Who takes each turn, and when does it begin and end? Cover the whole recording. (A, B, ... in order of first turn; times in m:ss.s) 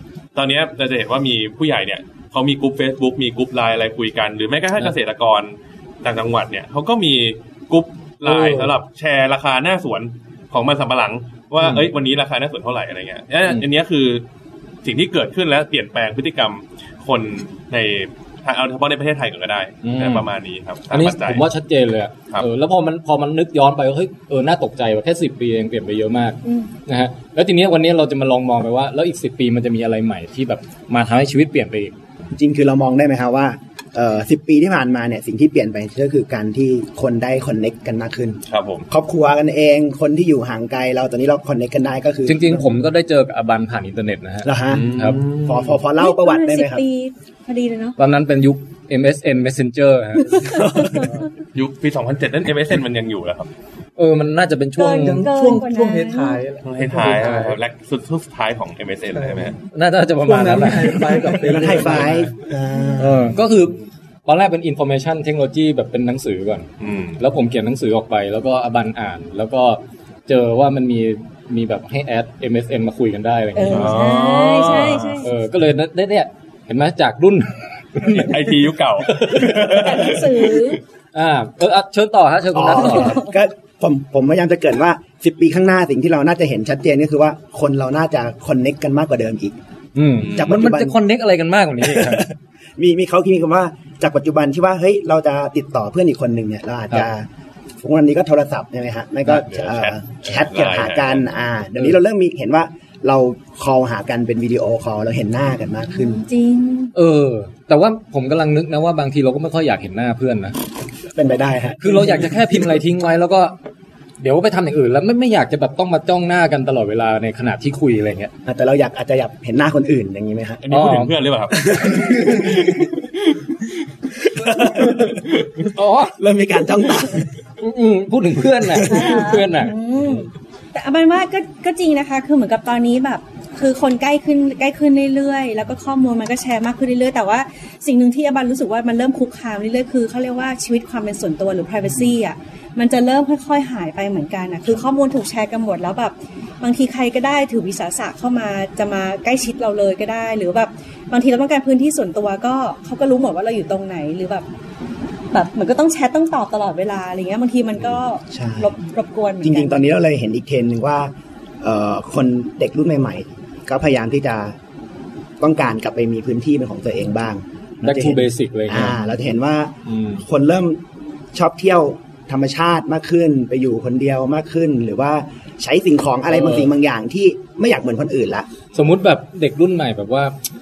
0:00.3-0:14.2 A
0:08.2-0:08.7 B
0:11.6-0:11.9 B
0:14.8-0:21.4 A
0:19.8-0:20.3 B
0:20.9-0:31.9 B
0:26.4-0:26.7 C
0:32.4-0:42.7 D
0:38.5-0:38.9 A
0:42.3-0:45.2 B
0:44.4-0:46.8 D
0:44.7-0:45.8 A
0:46.0-0:48.0 C
0:48.0-0:50.7 B
0:50.3-0:51.2 C
0:51.5-0:53.5 A
0:54.0-0:55.3 B
0:54.8-0:56.4 C
0:55.0-0:57.6 E
0:56.6-0:59.6 A
0:59.2-0:59.5 E
0:59.7-1:02.0 B
1:00.2-1:02.3 E
1:01.4-1:03.4 D
1:02.7-1:03.1 C
1:03.0-1:06.7 B
1:06.8-1:07.2 A
1:07.2-1:14.0 B
1:13.5-1:15.3 C
1:13.7-1:15.3 A
1:15.2-1:18.4 B
1:18.2-1:20.7 A
1:19.3-1:19.8 B
1:19.7-1:20.8 C
1:21.1-1:23.2 B
1:22.5-1:29.6 D
1:22.7-1:23.3 C
1:29.9-1:32.3 B
1:30.2-1:30.5 A
1:30.3-1:31.0 D
1:31.8-1:37.2 D
1:37.8-1:46.2 D
1:39.3-1:41.3 A
1:45.9-1:46.9 C
1:46.9-1:50.6 B
1:51.1-1:52.7 D
1:51.8-1:53.5 B
1:54.2-1:58.3 B
1:58.4-2:00.6 D
2:00.6-2:03.4 A
2:00.7-2:01.1 B
2:01.6-2:02.9 D
2:04.2-2:07.3 D
2:05.7-2:06.2 B
2:07.6-2:10.2 B
2:08.6-2:09.2 D
2:08.8-2:34.4 C
2:35.3-2:39.8 C
2:38.3-2:38.8 D
2:39.4-2:44.6 D
2:45.4-2:50.8 D
2:47.8-2:49.0 B
2:49.8-2:50.2 B
2:51.3-2:58.5 D
2:56.3-2:56.7 B
2:58.7-3:00.3 B